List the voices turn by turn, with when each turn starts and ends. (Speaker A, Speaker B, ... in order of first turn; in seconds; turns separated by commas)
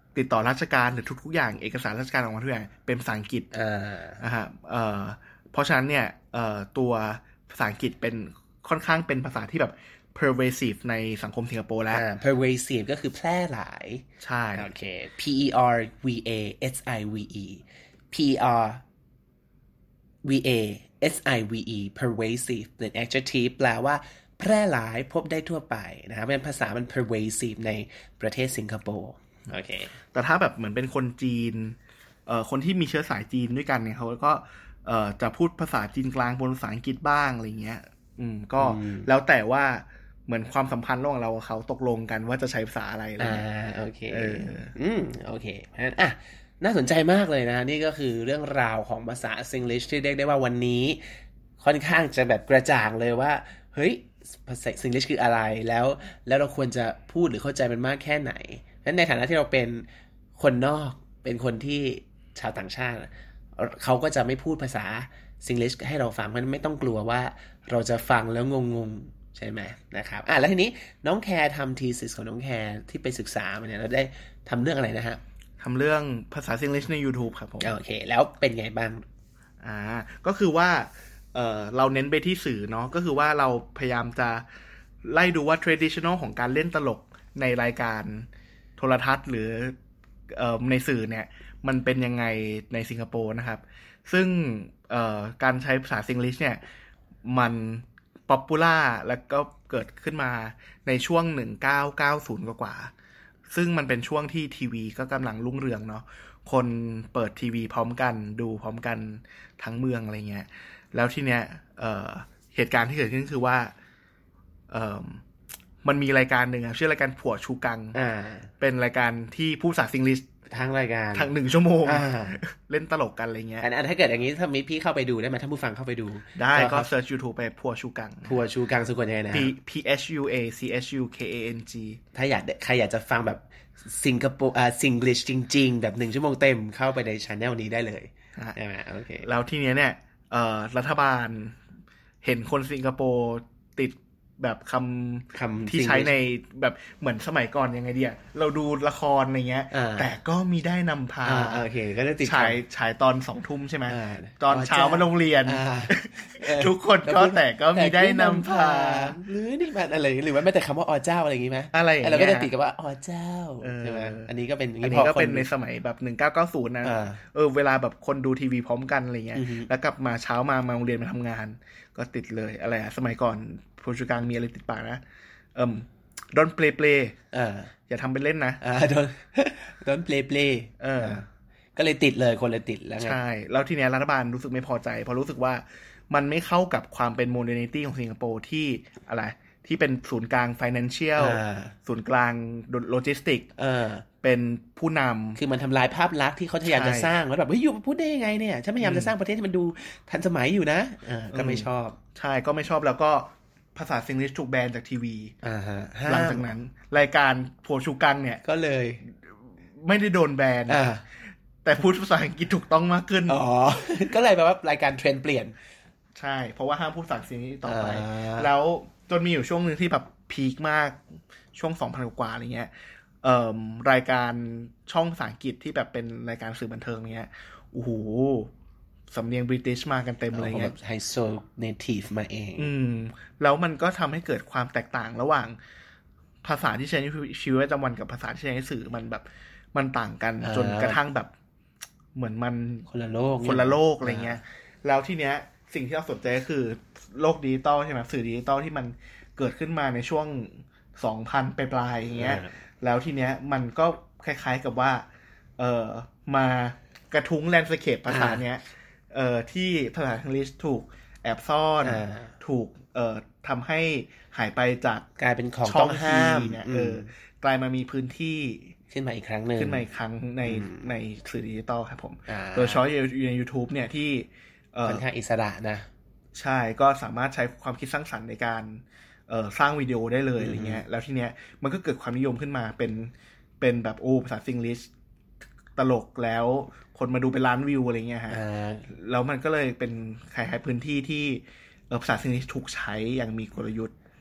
Speaker A: 0.1-3.5, Speaker B: 3.5-4.2, Speaker A: 4.2-12.1, Speaker B: 11.9-18.8, Speaker A: 14.2-14.7, Speaker B: 20.2-29.9, Speaker A: 30.1-43.5, Speaker B: 38.6-39.1, Speaker B: 43.2-59.9, Speaker A: 44.1-44.7, Speaker B: 60.4-75.2, Speaker A: 75.6-77.7, Speaker B: 77.6-79.0, Speaker A: 79.6-84.5, Speaker A: 85.0-89.8, Speaker A: 90.3-96.6, Speaker A: 97.3-102.9, Speaker A: 103.5-113.7, Speaker A: 114.7-115.2, Speaker A: 115.8-118.0, Speaker B: 117.9-118.5, Speaker A: 118.6-120.3, Speaker B: 120.5-121.3, Speaker A: 121.2-123.7, Speaker B: 121.8-122.4, Speaker B: 123.6-126.9, Speaker A: 126.4-128.4, Speaker B: 128.2-129.5, Speaker A: 129.3-132.0, Speaker B: 132.1-139.3, Speaker A: 139.2-141.6, Speaker A: 142.2-151.7, Speaker B: 145.3-146.1, Speaker B: 149.7-150.2, Speaker B: 151.2-152.6, Speaker A: 152.2-159.2, Speaker B: 153.9-165.5, Speaker A: 161.7-162.5, Speaker A: 163.6-164.3, Speaker A: 164.8-175.0, Speaker B: 166.8-167.2, Speaker B: 169.3-169.7, Speaker A: 175.6-177.2, Speaker B: 177.3-177.7, Speaker A: 177.9-178.6, Speaker B: 178.6-183.2, Speaker A: 180.8-181.2, Speaker A: 183.0-193.5, Speaker B: 191.2-191.8, Speaker B: 193.6-194.1, Speaker A: 194.2-195.4, Speaker B: 195.4-202.0, Speaker A: 196.6-197.2, Speaker A: 198.8-199.1, Speaker A: 201.3-205.3, Speaker B: 205.4-206.4, Speaker A: 206.1-208.4, Speaker B: 208.4-209.0, Speaker A: 209.8-210.8, Speaker B: 210.7-211.0, Speaker A: 211.6-213.4, Speaker B: 213.3-215.6, Speaker A: 216.2-222.7, Speaker B: 217.7-218.5, Speaker A: 223.2-228.5, Speaker A: 229.1-230.7, Speaker B: 230.3-232.7, Speaker A: 232.6-235.6, Speaker A: 236.4-241.3, Speaker B: 240.4-241.0, Speaker A: 242.2-242.9, Speaker B: 242.9-244.4, Speaker A: 243.4-255.1, Speaker B: 252.2-252.5, Speaker A: 255.6-265.1, Speaker B: 258.1-258.4, Speaker B: 261.8-262.3, Speaker B: 265.2-267.1, Speaker A: 265.6-268.7, Speaker B: 268.9-269.9, Speaker A: 269.6-275.0, Speaker B: 270.4-270.9, Speaker B: 272.3-272.8, Speaker B: 274.9-275.9, Speaker A: 276.4-284.9, Speaker B: 280.4-280.8, Speaker A: 285.8-293.9, Speaker B: 288.3-288.9